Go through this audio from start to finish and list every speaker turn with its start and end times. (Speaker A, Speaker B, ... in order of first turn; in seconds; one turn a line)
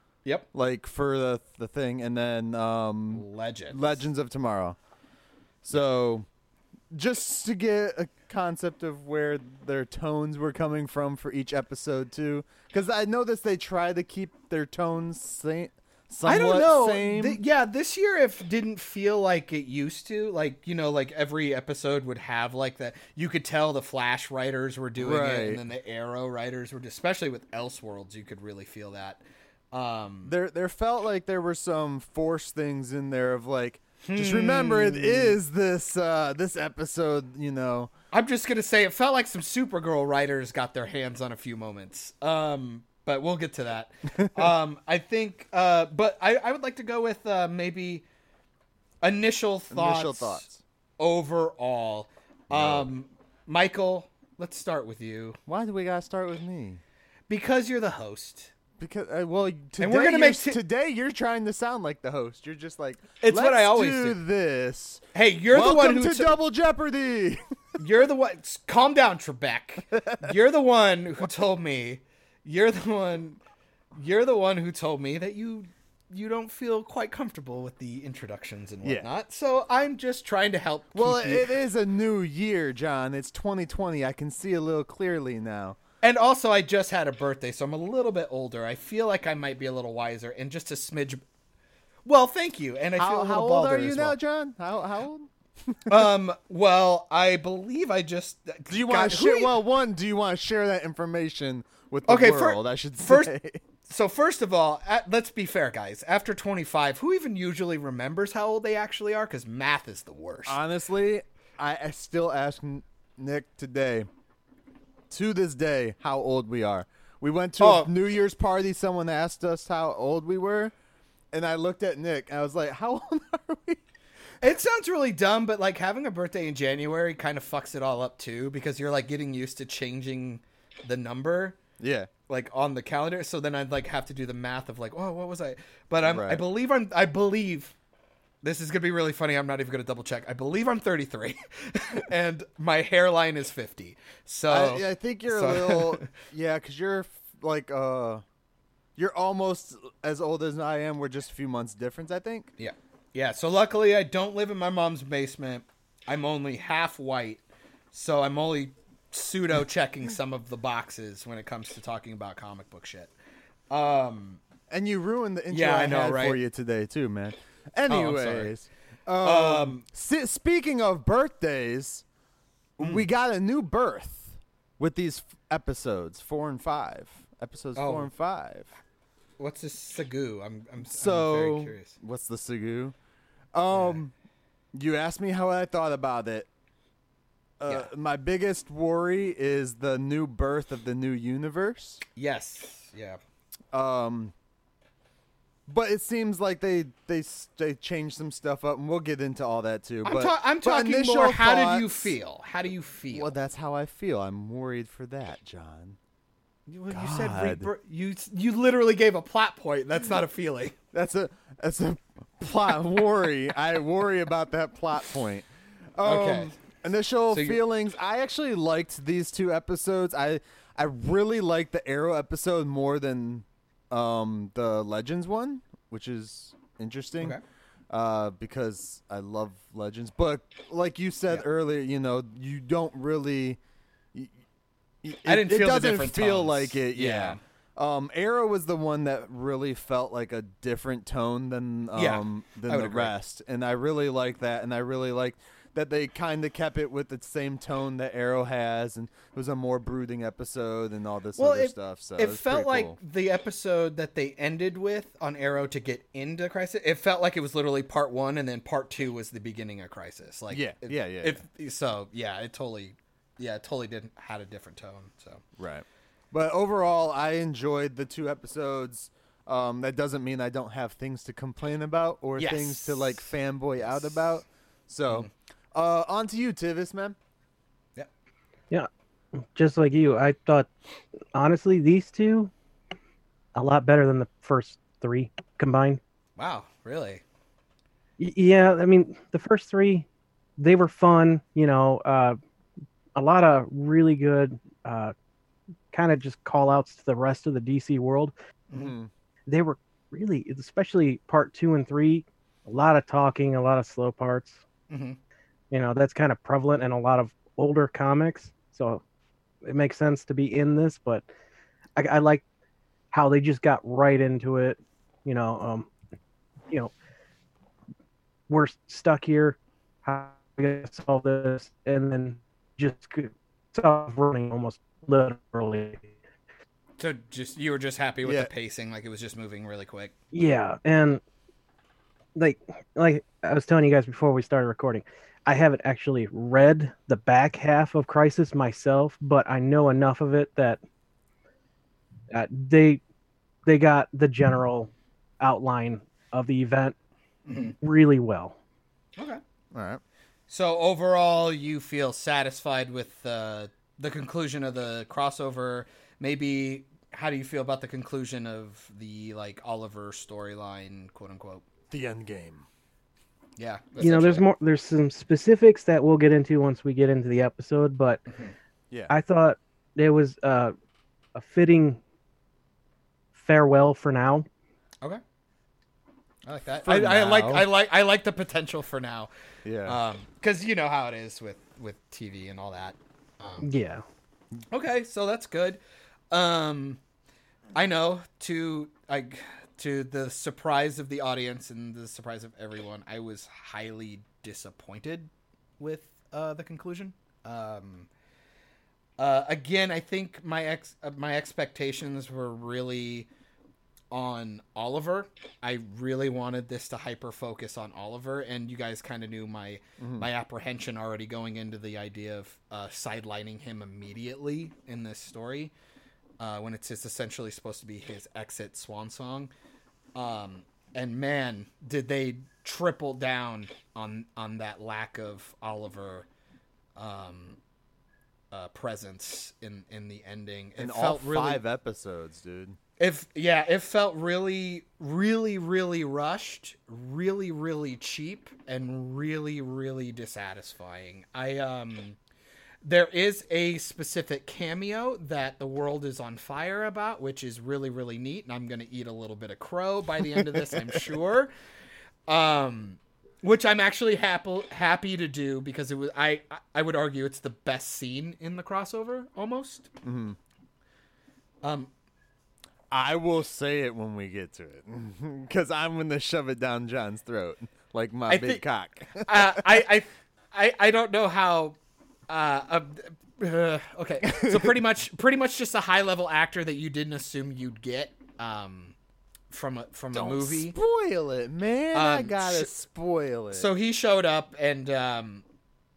Speaker A: 0.5-4.8
Speaker B: 3.1-4.0
Speaker A: 5.6-6.3
Speaker A: 6.9-17.4
Speaker B: 16.2-30.3
Speaker A: 24.9-25.6
Speaker A: 30.2-37.9
Speaker B: 34.0-35.4
Speaker B: 38.1-48.0
Speaker B: 49.0-50.4
Speaker A: 49.7-50.6
Speaker B: 51.0-55.4
Speaker A: 52.5-52.9
Speaker A: 55.5-56.8
Speaker B: 57.3-58.5
Speaker A: 58.8-67.8
Speaker B: 59.8-60.6
Speaker B: 63.2-64.2
Speaker B: 65.1-66.4
Speaker B: 67.8-73.4
Speaker A: 69.9-70.3
Speaker B: 73.9-81.5
Speaker A: 80.9-85.8
Speaker B: 86.0-91.2
Speaker B: 92.0-94.2
Speaker A: 93.0-96.1
Speaker B: 95.9-99.5
Speaker A: 98.7-103.6
Speaker B: 102.1-103.3
Speaker B: 103.9-110.6
Speaker A: 110.5-114.1
Speaker A: 115.1-120.7
Speaker B: 117.6-117.9
Speaker A: 121.3-123.8
Speaker B: 124.4-131.6
Speaker A: 131.8-132.1
Speaker B: 132.3-137.7
Speaker A: 136.0-136.4
Speaker B: 138.4-146.1
Speaker A: 144.5-148.2
Speaker A: 148.9-152.5
Speaker B: 152.6-163.1
Speaker B: 163.7-164.4
Speaker A: 164.7-172.0
Speaker B: 165.5-166.4
Speaker B: 167.9-168.5
Speaker B: 169.2-169.8
Speaker A: 172.8-178.7
Speaker B: 172.8-173.0
Speaker B: 177.8-178.1
Speaker B: 179.4-181.9
Speaker A: 180.9-182.9
Speaker A: 183.5-184.1
Speaker B: 183.7-184.0
Speaker A: 184.7-186.5
Speaker A: 187.6-192.0
Speaker B: 192.2-193.2
Speaker A: 193.7-194.3
Speaker A: 195.7-202.1
Speaker B: 200.0-203.3
Speaker A: 203.1-206.0
Speaker B: 206.7-210.7
Speaker A: 206.9-207.7
Speaker A: 210.9-227.4
Speaker B: 216.0-216.6
Speaker B: 217.3-217.6
Speaker A: 227.9-233.6
Speaker A: 235.0-253.0
Speaker B: 235.2-237.4
Speaker B: 241.9-243.1
Speaker B: 251.4-265.4
Speaker A: 260.5-261.4
Speaker A: 265.6-277.1
Speaker B: 272.4-273.3
Speaker C: 279.5-280.7
Speaker C: 281.3-282.5
Speaker C: 283.5-286.0
Speaker B: 286.4-287.2
Speaker C: 288.2-290.1
Speaker C: 290.6-292.4
Speaker C: 293.1-295.1
Speaker C: 295.9-298.3
Speaker A: 298.7-299.1
Speaker C: 299.5-304.6
Speaker B: 304.9-305.2
Speaker C: 305.7-309.0
Speaker C: 309.6-311.2
Speaker C: 312.0-312.4
Speaker C: 313.1-315.9
Speaker C: 318.5-326.1
Speaker B: 327.0-330.1
Speaker A: 328.2-328.5
Speaker C: 330.3-331.2
Speaker C: 332.3-340.8
Speaker C: 342.3-343.0
Speaker C: 343.6-346.9
Speaker B: 347.5-347.7
Speaker C: 347.8-348.6
Speaker A: 349.7-350.0
Speaker B: 350.5-361.6
Speaker A: 361.9-362.6
Speaker B: 363.6-364.4
Speaker C: 364.0-368.2
Speaker B: 368.3-368.5
Speaker C: 369.1-370.7
Speaker C: 371.3-372.0
Speaker C: 373.3-374.4
Speaker B: 376.4-379.3
Speaker A: 376.8-377.7
Speaker A: 379.6-380.0
Speaker B: 379.9-383.6
Speaker C: 383.6-384.0
Speaker B: 384.7-385.8
Speaker B: 386.3-387.0
Speaker B: 387.7-398.1
Speaker B: 399.2-403.3
Speaker B: 404.1-415.7
Speaker A: 410.0-410.3
Speaker B: 416.4-419.5
Speaker B: 420.1-426.3
Speaker B: 426.9-427.6
Speaker B: 428.5-431.6
Speaker A: 430.8-432.8
Speaker B: 433.0-442.2
Speaker B: 442.8-451.5
Speaker A: 450.3-451.0
Speaker B: 452.3-459.9
Speaker A: 460.0-460.4
Speaker B: 461.6-461.9
Speaker A: 462.9-469.8
Speaker B: 468.3-471.8
Speaker B: 472.3-478.9
Speaker A: 474.2-474.7
Speaker B: 479.5-480.7
Speaker A: 480.1-483.7
Speaker B: 481.9-482.7
Speaker B: 483.5-485.4